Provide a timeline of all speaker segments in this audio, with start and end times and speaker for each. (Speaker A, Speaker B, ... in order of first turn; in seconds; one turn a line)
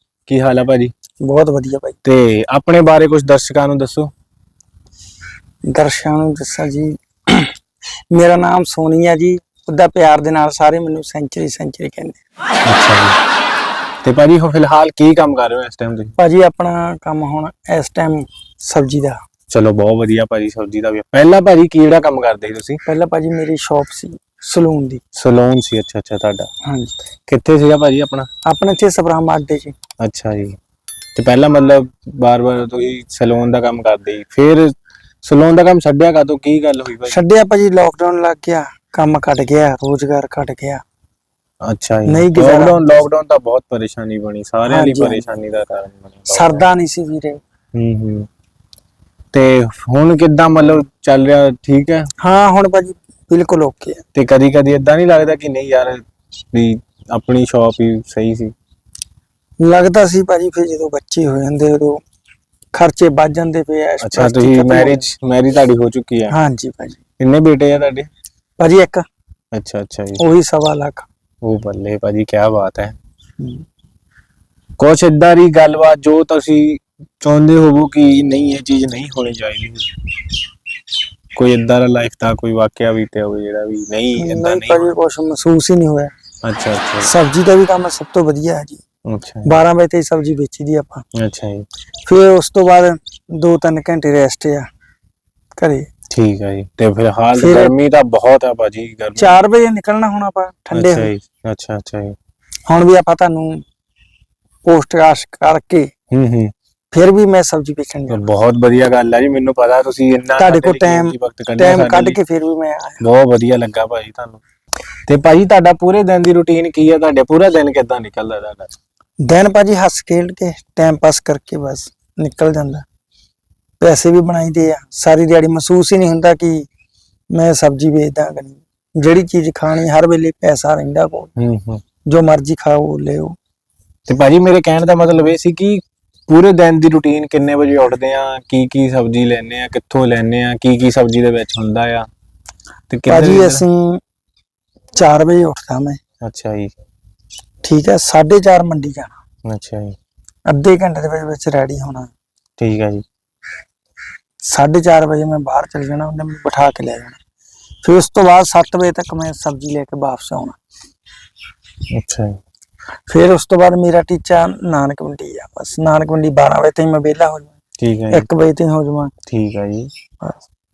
Speaker A: 0.3-0.9
Speaker B: 1.2-1.9
Speaker A: 2.0-4.1
Speaker B: 5.7-7.5
Speaker B: 8.1-12.2
Speaker A: 12.7-13.2
Speaker A: 14.0-16.1
Speaker B: 16.2-19.2
Speaker A: 19.5-22.8
Speaker B: 22.8-25.0
Speaker A: 25.1-26.5
Speaker B: 26.6-26.9
Speaker A: 27.3-28.3
Speaker B: 28.4-29.8
Speaker A: 30.0-30.6
Speaker A: 31.1-37.2
Speaker B: 37.1-40.8
Speaker A: 41.6-46.6
Speaker B: 42.1-42.8
Speaker B: 44.7-45.3
Speaker B: 46.3-47.4
Speaker A: 47.7-48.3
Speaker A: 49.3-52.1
Speaker B: 52.2-54.0
Speaker A: 54.1-58.5
Speaker B: 59.6-62.0
Speaker B: 62.7-65.1
Speaker A: 64.0-66.3
Speaker B: 66.3-67.0
Speaker A: 67.2-68.1
Speaker B: 68.6-69.0
Speaker A: 69.5-70.2
Speaker B: 70.2-71.1
Speaker A: 71.4-73.0
Speaker A: 74.8-79.9
Speaker A: 81.3-84.9
Speaker B: 84.1-86.1
Speaker A: 86.4-87.1
Speaker B: 87.0-88.8
Speaker A: 89.1-89.5
Speaker B: 89.5-91.0
Speaker A: 91.2-91.6
Speaker B: 92.0-94.7
Speaker B: 95.6-95.9
Speaker A: 96.1-99.4
Speaker B: 97.4-97.7
Speaker B: 99.2-101.1
Speaker A: 100.7-102.2
Speaker B: 102.7-103.6
Speaker B: 104.6-105.9
Speaker A: 106.1-106.5
Speaker B: 106.9-108.2
Speaker A: 108.1-112.2
Speaker B: 110.4-113.0
Speaker A: 113.0-114.4
Speaker A: 115.1-118.7
Speaker B: 119.2-122.8
Speaker B: 123.8-126.7
Speaker B: 127.3-131.3
Speaker A: 131.4-131.8
Speaker B: 132.1-133.3
Speaker A: 134.1-142.1
Speaker A: 142.9-143.6
Speaker B: 143.1-144.0
Speaker B: 144.9-146.0
Speaker A: 146.2-146.8
Speaker B: 147.6-149.2
Speaker A: 149.5-149.9
Speaker B: 150.5-152.1
Speaker A: 152.6-153.0
Speaker B: 154.5-157.2
Speaker B: 157.8-160.6
Speaker A: 161.9-162.4
Speaker B: 163.1-167.5
Speaker A: 167.8-168.3
Speaker B: 168.1-169.1
Speaker A: 169.3-169.9